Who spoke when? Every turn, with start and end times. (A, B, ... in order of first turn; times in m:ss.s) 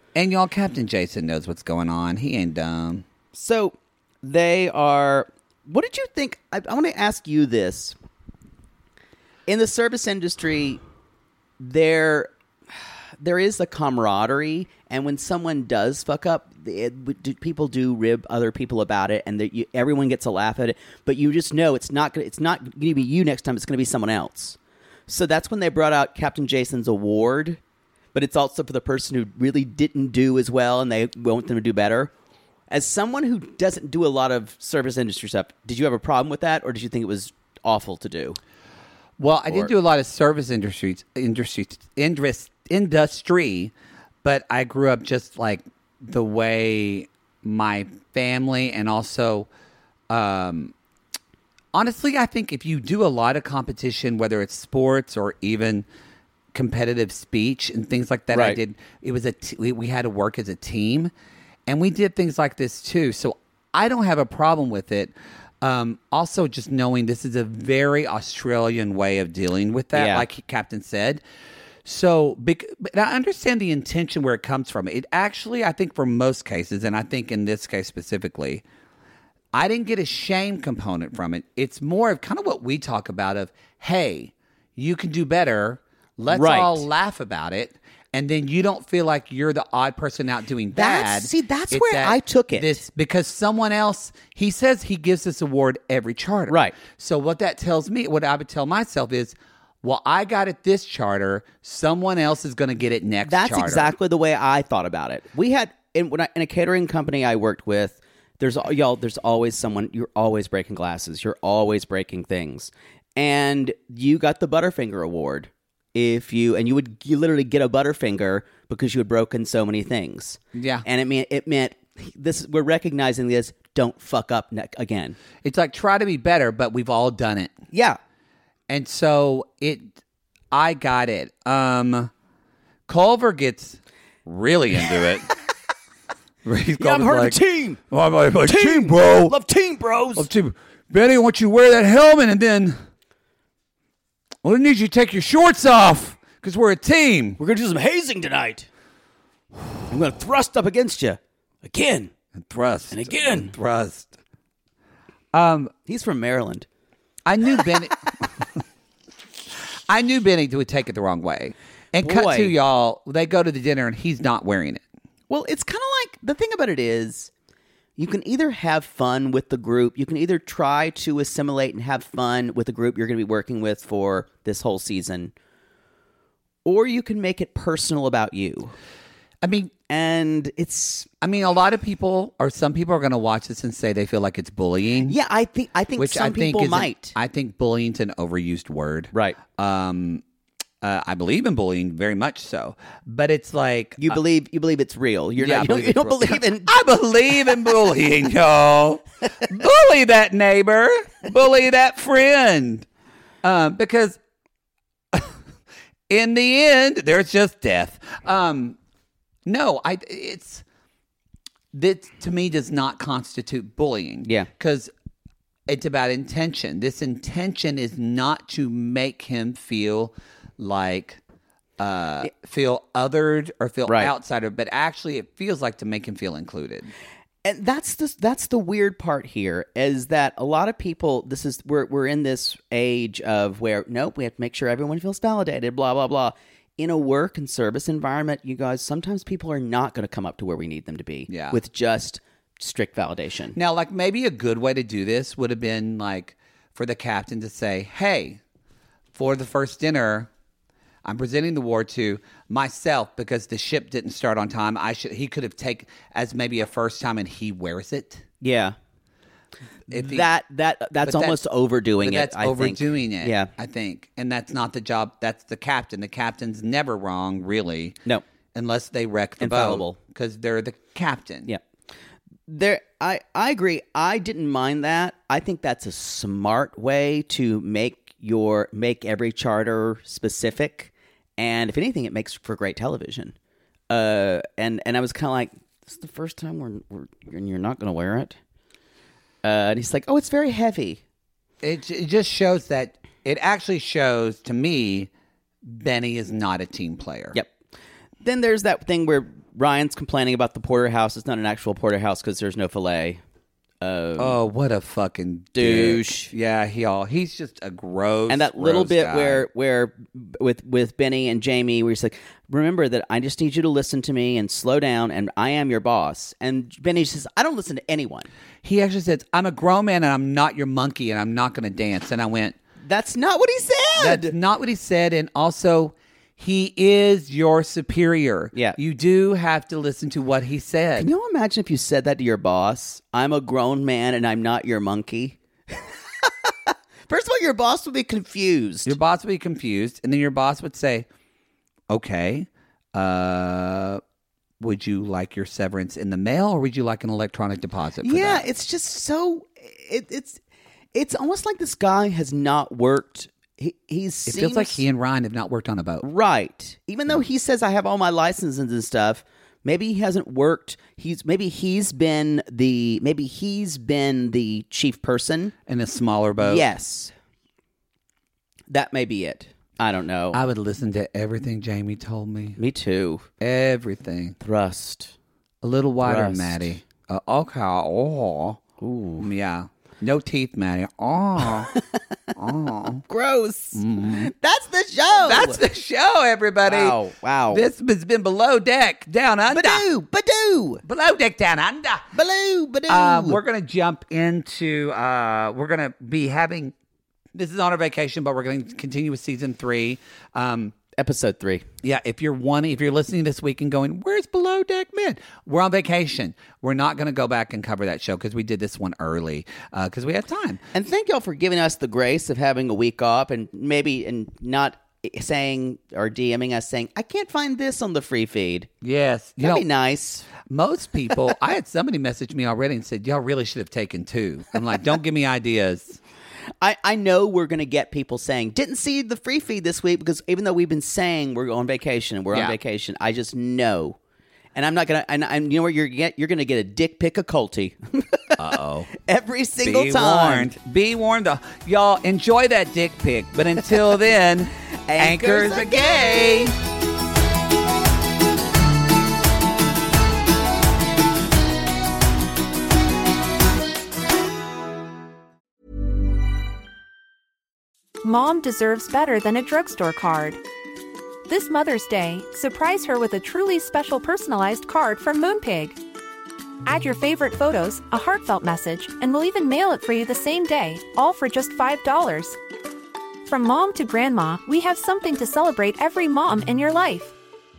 0:00.1-0:03.0 A
0:03.3-0:07.9 B
0:09.5-0:10.8 B
0:11.6-0:12.3 B
0:13.2-0:24.6 B
0:25.1-0:27.6 B
0:28.1-0:32.1 B
0:32.7-0:38.4 B
0:39.2-0:43.7 A
0:44.2-0:49.5 A
0:50.1-0:50.7 A
0:51.7-0:55.8 A
0:56.5-1:01.1 A
0:58.3-0:58.6 B
1:01.7-1:11.2 A
1:09.9-1:10.2 B
1:11.8-1:18.6 A
1:19.5-1:43.9 A
1:26.3-1:26.8 B
1:30.7-1:32.8 B
1:36.5-1:36.8 B
1:43.2-2:05.2 B
2:00.5-2:00.8 A
2:05.4-2:07.6 A
2:07.7-2:08.0 B
2:08.7-2:09.9 A
2:10.5-2:12.1 A
2:12.9-2:15.3 A
2:16.4-2:19.4 A
2:16.8-2:17.8 B
2:18.4-2:20.3 B
2:20.2-2:22.8 A
2:24.4-2:27.4 A
2:27.4-2:28.7 B
2:29.9-2:32.1 B
2:32.4-2:34.1 A
2:32.9-2:33.5 B
2:35.3-2:35.7 A
2:35.8-2:36.6 B
2:37.2-2:38.4 A
2:39.9-2:44.8 A
2:42.0-2:42.5 B
2:45.3-2:47.3 B
2:48.0-2:55.3 B
2:56.6-2:58.7 B
2:59.4-2:59.7 A
2:59.9-3:01.1 B
3:01.2-3:05.1 A
3:05.0-3:07.1 B
3:06.0-3:10.2 A
3:09.1-3:09.4 B
3:10.8-3:14.2 A
3:14.0-3:16.7 B
3:15.4-3:22.8 A
3:23.4-3:24.2 A
3:26.1-3:28.8 A
3:29.4-3:30.6 A
3:31.7-3:34.9 A
3:34.2-3:34.5 B
3:35.7-3:41.2 A
3:41.8-3:46.9 A
3:43.9-3:44.1 B
3:47.4-4:03.6 B
4:01.3-4:01.6 A
4:03.5-4:08.4 A
4:09.1-4:10.3 A
4:11.0-4:18.2 A
4:18.4-4:18.8 B
4:19.9-4:23.5 B
4:19.9-4:20.3 A
4:21.0-4:21.4 A
4:22.0-4:28.0 A
4:28.5-4:31.5 A
4:29.4-4:30.0 B
4:32.5-4:43.3 B
4:43.9-4:48.4 B
4:49.4-4:51.0 B
4:51.6-4:55.1 A
4:55.6-4:57.4 A
4:58.2-5:03.2 B
5:03.8-5:04.4 B
5:04.2-5:09.4 A
5:05.5-5:06.3 B
5:08.3-5:18.3 B
5:18.6-5:22.6 A
5:22.8-5:24.3 B
5:24.0-5:31.1 A
5:28.5-5:28.8 B
5:31.0-5:39.0 B
5:38.8-5:41.1 A
5:41.9-5:44.0 A
5:44.6-5:48.4 A
5:48.0-5:50.4 B
5:50.9-5:54.8 B
5:54.2-5:56.0 A
5:56.0-6:05.5 B
6:05.7-6:06.7 A
6:06.4-6:07.1 B
6:08.7-6:10.4 B
6:10.3-6:12.6 A
6:12.6-6:13.3 B
6:13.4-6:14.4 A
6:14.4-6:15.1 B
6:15.6-6:18.6 A
6:16.0-6:16.7 B
6:18.8-6:19.3 B
6:19.2-6:21.7 A
6:22.4-6:23.0 A
6:22.8-6:25.6 B
6:23.7-6:24.3 A
6:25.1-6:27.0 A
6:26.6-6:27.7 B
6:27.5-6:29.8 A
6:29.5-6:30.8 B
6:30.8-6:32.1 A
6:32.1-6:33.4 B
6:32.9-6:36.7 A
6:37.3-6:40.7 A
6:41.0-6:41.6 B
6:41.8-6:50.6 A
6:50.7-6:58.7 B
6:58.8-6:59.6 A
6:59.4-7:00.3 B
7:00.4-7:06.0 A
7:06.6-7:14.0 B
7:12.3-7:12.6 A
7:14.5-7:20.5 B
7:18.4-7:18.9 A
7:19.6-7:26.5 A
7:24.8-7:26.5 B
7:38.0-7:40.4 C
7:41.3-7:45.8 C
7:46.6-7:52.4 C
7:53.2-7:57.1 C